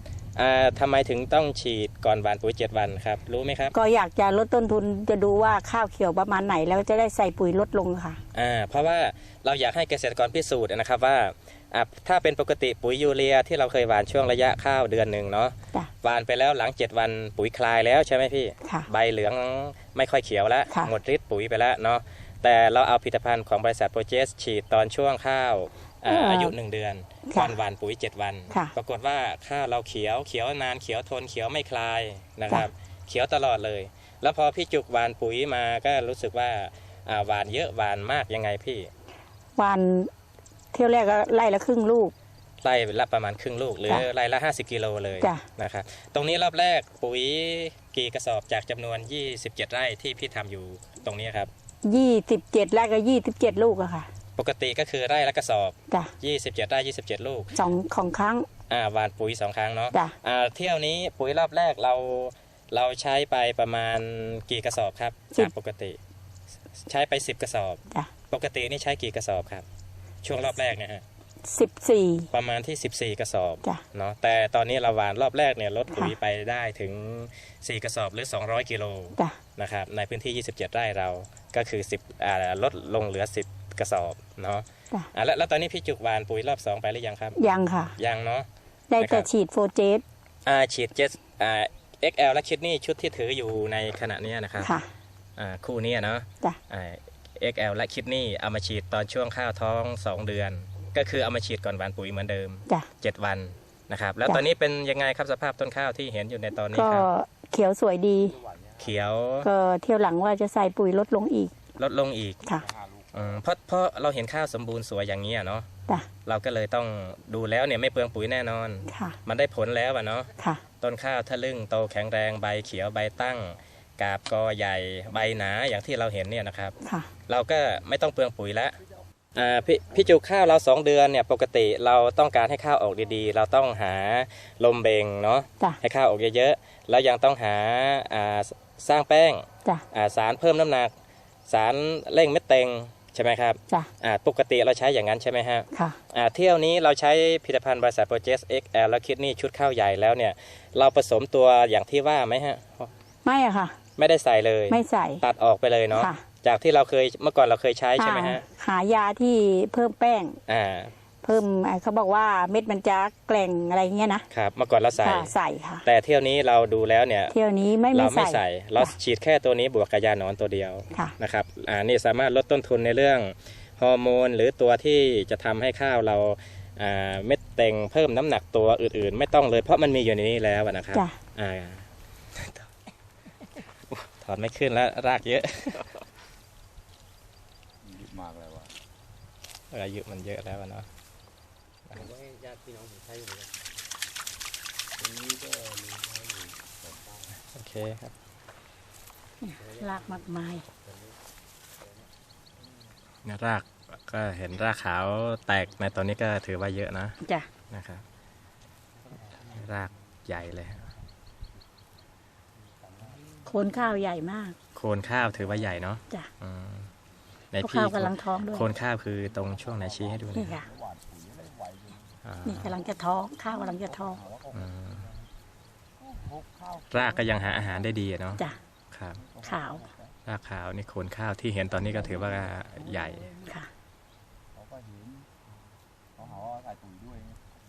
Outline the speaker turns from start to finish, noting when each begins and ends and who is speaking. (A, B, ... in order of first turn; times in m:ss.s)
0:00.4-0:03.7 A
0:03.7-0:08.2 B
0:08.3-0:38.9 A
0:26.1-0:26.5 B
0:27.3-0:27.5 B
0:39.6-0:40.1 B
0:40.7-0:42.1 B
0:42.6-0:51.5 A
0:51.8-0:54.1 B
0:54.4-0:57.6 A
0:57.5-0:58.5 B
0:58.7-1:06.0 A
1:06.8-1:09.6 A
1:10.2-1:11.0 A
1:11.4-1:12.3 B
1:12.3-1:27.4 A
1:27.4-1:28.0 B
1:28.0-1:28.5 A
1:28.9-1:30.0 B
1:29.0-1:29.3 A
1:30.4-1:34.7 A
1:34.6-1:34.9 B
1:35.4-1:47.1 A
1:46.7-1:48.4 B
1:48.8-1:49.5 A
1:49.4-1:51.5 B
1:51.8-1:52.4 A
1:52.6-1:53.0 C
1:53.1-1:55.7 A
1:56.2-2:00.3 A
1:58.9-1:59.2 B
2:00.4-2:00.6 B
2:00.8-2:06.7 A
2:06.8-2:07.1 B
2:07.3-2:08.8 A
2:09.3-2:20.9 A
2:21.5-2:32.9 A
2:25.7-2:26.0 B
2:33.2-2:33.8 B
2:34.0-2:38.4 A
2:34.7-2:35.2 B
2:35.9-2:36.2 B
2:38.0-2:40.4 B
2:40.5-2:40.9 A
2:41.2-2:44.2 B
2:44.3-2:45.3 A
2:45.0-2:45.8 B
2:45.8-2:47.4 A
2:47.3-2:48.9 B
2:47.9-3:02.7 A
3:03.9-3:05.9 A
3:07.8-3:08.7 C
3:09.7-3:10.9 A
3:15.0-3:17.3 C
3:17.5-3:18.1 A
3:19.4-3:20.7 B
3:23.2-3:27.2 A
3:27.7-3:28.0 A
3:29.4-3:30.9 A
3:33.4-3:34.6 B
3:34.7-3:36.9 A
3:37.5-3:40.6 A
3:37.6-3:38.7 B
3:39.6-3:42.1 C
3:40.3-3:40.7 B
3:42.2-3:42.8 A
3:42.4-3:44.2 B
3:43.6-3:44.6 C
3:44.5-3:45.0 A
3:46.0-3:47.3 C
3:46.9-3:49.2 A
3:49.2-3:50.1 C
3:49.4-3:49.9 B
3:50.2-3:53.3 A
3:52.8-3:53.4 C
3:53.4-3:53.7 B
3:54.5-3:55.3 C
3:56.2-3:57.4 C